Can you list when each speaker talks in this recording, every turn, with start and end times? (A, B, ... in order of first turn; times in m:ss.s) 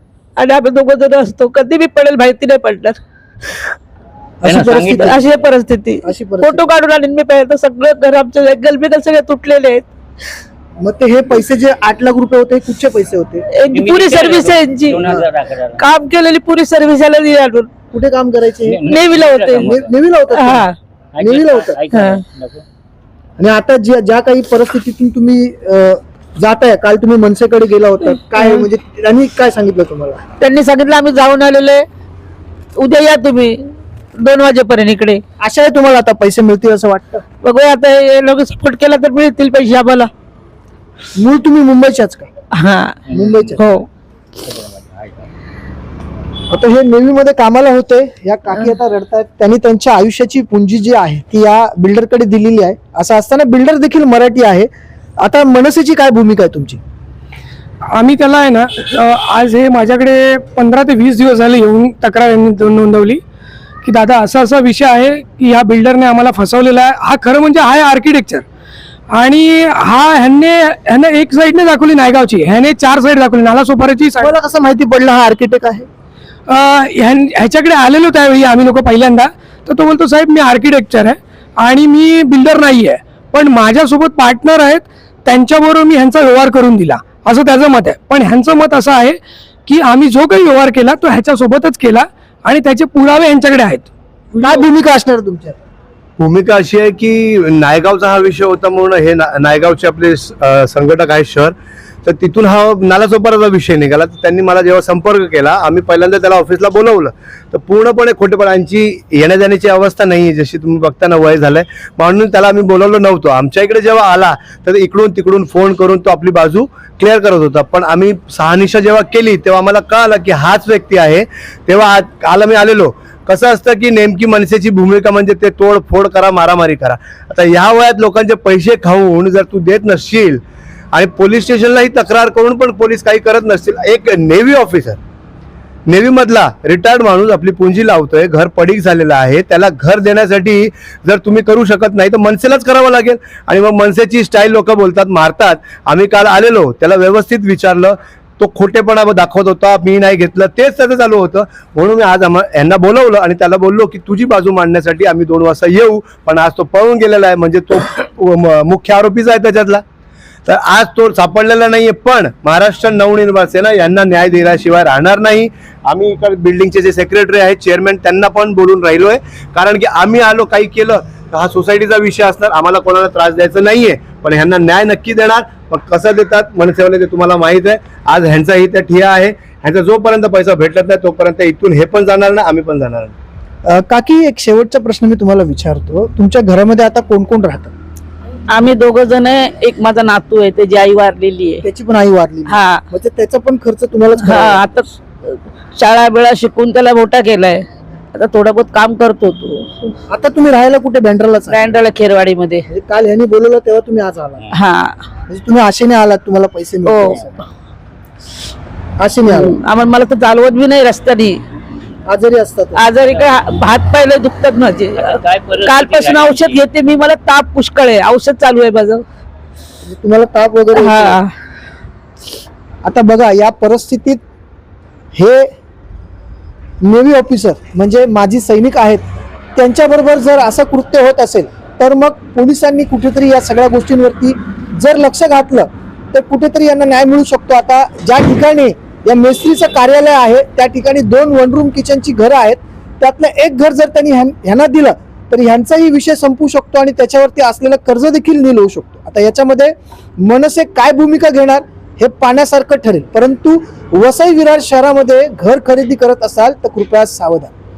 0:00.4-0:03.0 A
0:04.4-0:05.2 B
0:04.4-0:05.5 C
0:05.1-0:09.9 A
0:06.0-0:06.7 B
0:10.8-0:13.5 B
0:13.5-0:15.1 A
0:13.7-0:15.8 C
0:15.8-0:17.7 A
0:17.9-0:18.8 B
0:18.7-0:19.9 C
0:18.9-0:19.7 A
0:19.6-0:20.7 B
0:20.3-0:20.8 A
0:21.2-0:22.6 C
0:21.2-0:21.8 B
0:23.4-0:30.2 B
0:30.4-0:31.9 A
0:32.8-0:35.2 A
0:35.4-0:37.2 B
0:37.4-0:40.1 A
0:41.2-0:42.3 B
0:42.5-0:43.0 A
0:43.1-0:43.6 C
0:43.1-0:43.6 B
0:43.6-0:43.9 A
0:44.4-0:45.3 C
0:46.5-0:54.7 B
0:55.2-0:56.8 B
0:58.0-1:03.2 D
1:03.8-1:08.4 D
1:09.1-1:14.3 D
1:14.2-1:15.9 B
1:16.5-1:33.9 D
1:34.4-1:35.6 B
1:36.2-2:10.4 E
2:10.9-2:15.0 E
2:15.9-2:39.8 E
2:40.5-3:03.2 E
3:03.7-3:07.7 B
3:08.5-3:11.6 A
3:11.6-3:14.7 B
3:12.5-3:12.8 A
3:14.2-3:19.8 A
3:20.1-3:21.8 B
3:21.5-3:22.7 A
3:22.7-3:24.4 B
3:24.5-3:25.0 A
3:25.3-3:27.4 B
3:26.9-3:27.1 A
3:29.0-3:29.6 B
3:29.2-3:31.4 A
3:32.1-3:32.9 B
3:32.8-3:39.0 A
3:33.0-3:33.4 C
3:34.9-3:36.7 C
3:39.8-3:41.2 B
3:40.8-3:41.3 A
3:42.8-3:44.2 B
3:45.2-3:45.5 B
3:46.8-3:49.0 B
3:49.6-4:17.5 B